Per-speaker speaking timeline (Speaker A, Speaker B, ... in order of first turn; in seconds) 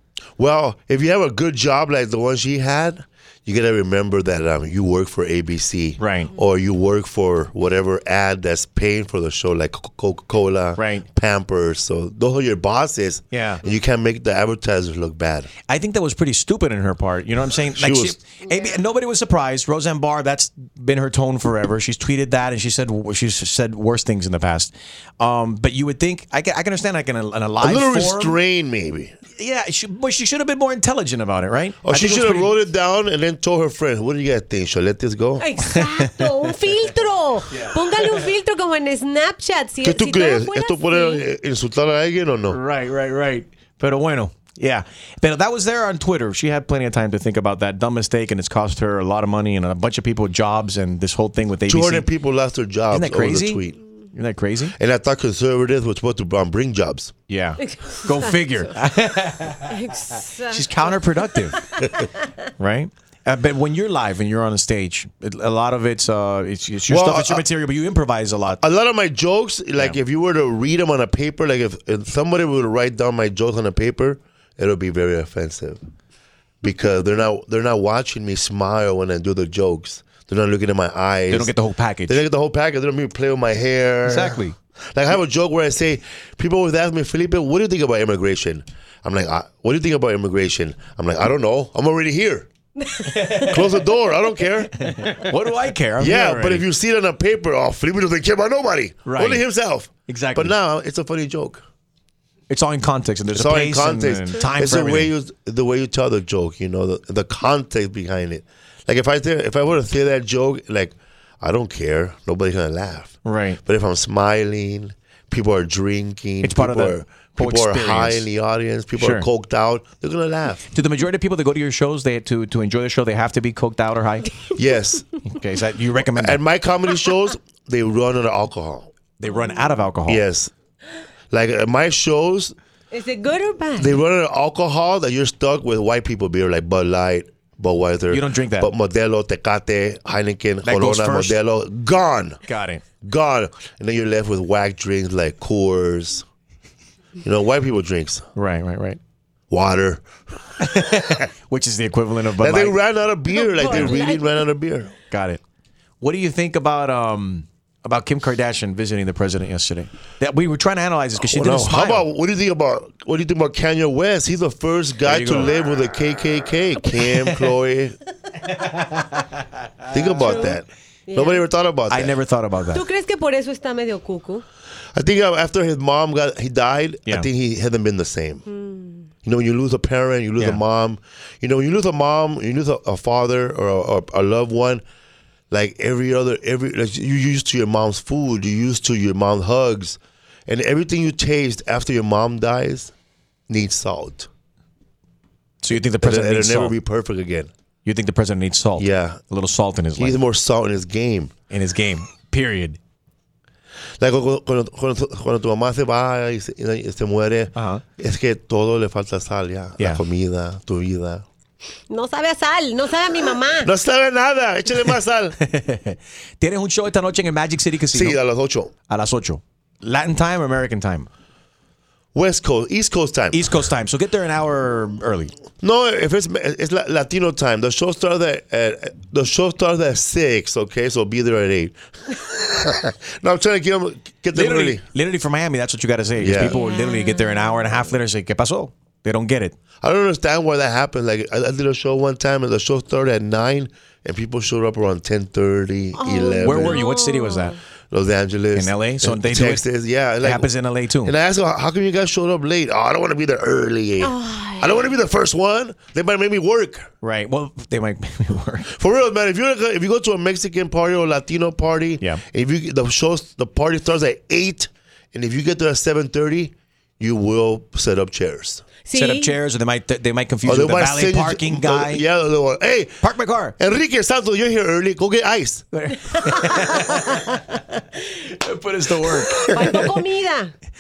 Speaker A: 0.4-15.5, 17.7-18.2, 27.6-29.1, 31.8-35.5, 39.8-42.6, 51.7-53.8, 54.8-57.1, 66.9-67.5, 68.6-75.8, 76.6-81.5, 82.1-92.5, 93.4-94.7, 96.0-101.6, 103.3-120.7, 124.6-125.1, 126.1-128.9, 130.1-130.5, 131.3-132.6, 133.8-142.4, 143.0-146.3, 147.2-148.3, 149.5-150.1, 151.0-151.2, 152.4-154.9, 161.2-168.0, 169.9-172.2, 174.9-178.4, 179.2-184.8, 185.5-192.9, 193.5-194.3, 196.0-197.5, 198.8-199.2, 200.0-201.3, 204.0-211.2, 213.6-215.4, 217.9-218.7, 222.1-223.5, 225.6-234.8, 236.2-236.6, 239.8-246.8, 247.9-256.9, 258.8-268.6, 270.4-275.7
Speaker B: 6.0-6.3, 10.8-11.1, 13.3-13.6, 15.7-28.4, 29.4-32.6, 35.7-36.3, 37.5-38.3, 42.5-52.1, 52.9-54.7, 57.3-59.8, 60.5-61.6, 62.6-68.6, 81.3-82.2, 84.0-84.5, 94.8-96.7, 99.0-99.5, 100.1-100.5, 102.5-105.1, 113.2-113.6, 116.4-118.3, 119.0-119.3, 120.7-124.4, 125.2-126.4, 129.2-130.2, 138.1-138.7, 140.6-141.4, 142.5-142.8, 148.4-149.0, 150.6-152.8, 155.1-155.4, 156.0-162.1, 165.0-165.5, 171.9-172.8, 195.6-196.8, 197.8-200.2, 201.5-202.8, 207.6-207.8, 215.4-218.2, 218.9-221.1, 223.3-225.3, 234.3-239.6, 246.4-247.6, 248.5-249.7, 250.2-251.2, 257.0-258.7, 268.9-272.0, 273.0-273.6, 275.7-277.4, 278.1-279.9
Speaker C: 35.4-41.2, 59.7-61.6, 93.0-93.4, 132.9-134.0, 153.3-154.4, 170.2-170.5, 171.1-171.5, 172.7-174.4, 178.5-179.1, 211.9-213.7, 236.6-237.2, 245.9-247.6, 254.0-254.9, 268.9-269.3, 276.1-277.0, 279.4-280.5